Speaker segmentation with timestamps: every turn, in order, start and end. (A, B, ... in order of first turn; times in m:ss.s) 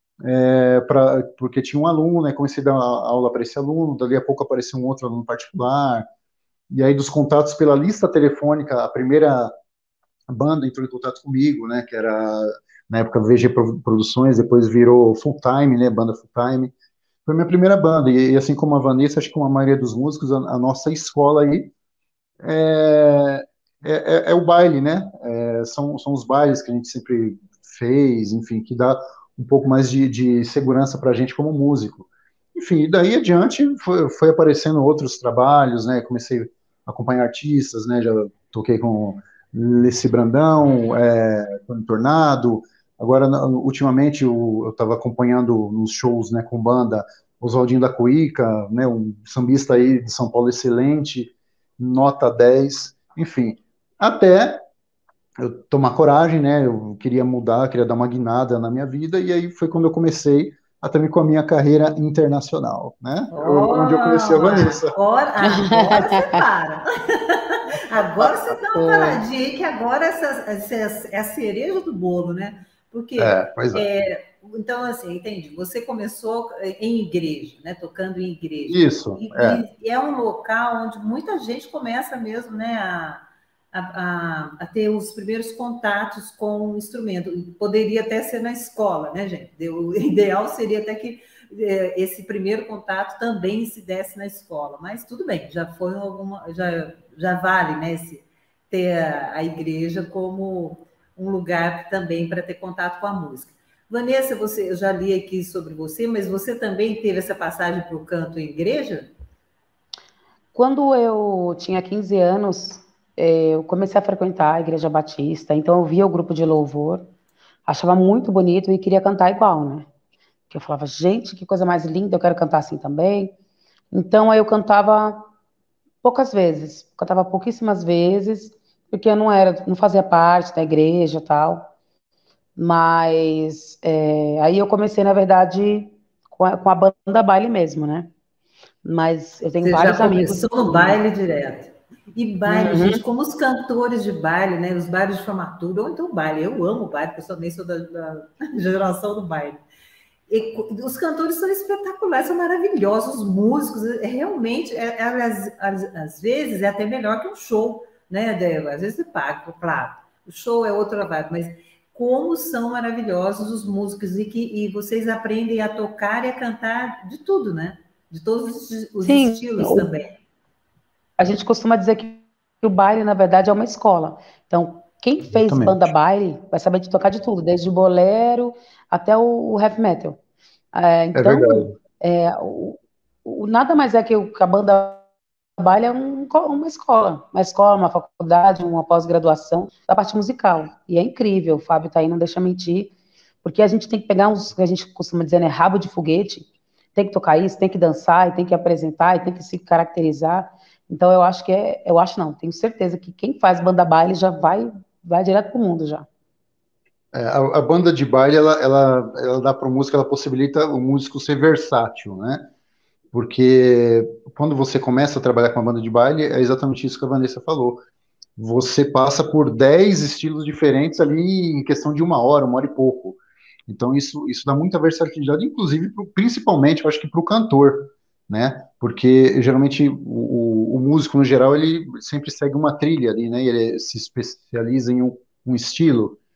0:00.2-0:06.0 A
0:06.7-0:09.5 A
0:10.3-0:16.7 A
0:17.3-0:21.7 A
0:22.4-0:54.6 A
0:55.4-1:05.0 A
1:03.3-1:49.1 B
1:05.4-1:06.4 C
1:07.7-1:08.5 A
1:08.7-1:09.2 C
1:13.2-1:13.9 A
1:18.7-1:19.6 A
1:50.6-1:57.1 C
1:57.7-1:59.9 C
2:00.5-2:03.3 C
2:03.9-2:05.3 C
2:06.0-2:11.7 C
2:12.6-2:18.1 C
2:18.8-2:21.0 C
2:19.6-2:29.6 B
2:22.5-2:23.0 C
2:30.3-2:50.2 B
2:49.0-2:49.9 C
2:51.2-3:00.2 C
2:55.3-2:55.9 A
3:00.7-3:05.1 C
3:01.2-3:01.8 A
3:05.6-3:12.9 C
3:13.4-3:26.1 C
3:27.1-3:32.5 A
3:33.1-3:37.8 A
3:38.4-3:56.2 A